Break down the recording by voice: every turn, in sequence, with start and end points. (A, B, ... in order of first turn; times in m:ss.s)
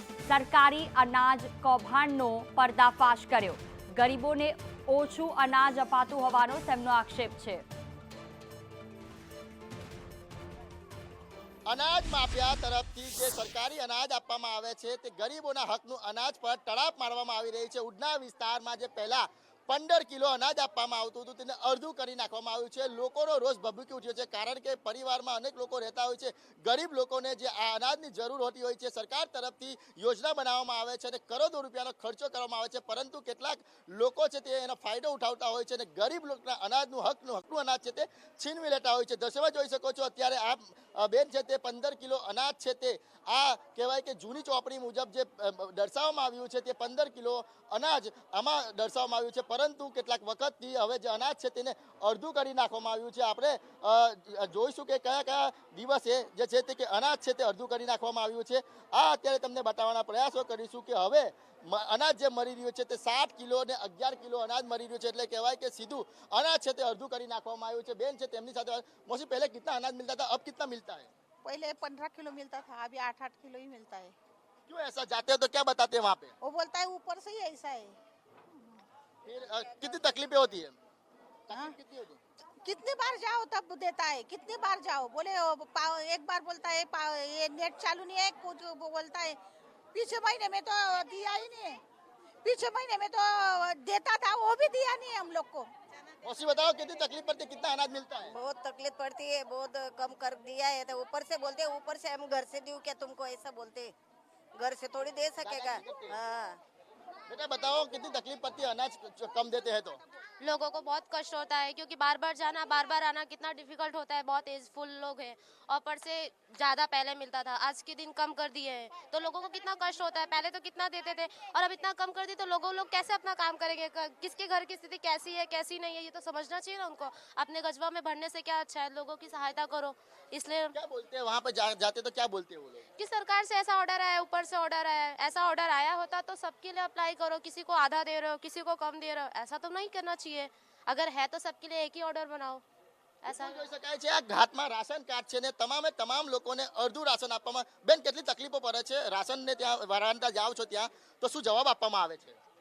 0:00.3-0:07.6 A
0:11.7-1:11.1 B
1:11.4-1:14.1 C
1:14.7-1:16.3 B
1:16.4-1:17.9 C
1:19.2-1:20.8 B
1:21.5-1:22.2 B
1:22.6-1:29.4 C
1:29.9-1:31.8 C
1:32.4-1:35.7 C
1:36.2-1:38.4 B
1:38.3-1:43.9 D
1:44.6-1:46.6 D
1:45.4-1:46.2 B
1:47.3-1:50.0 B
1:50.4-2:10.7 E
2:10.7-2:12.8 B
2:13.0-2:22.6 E
2:23.2-2:23.6 E
2:23.2-2:32.4 B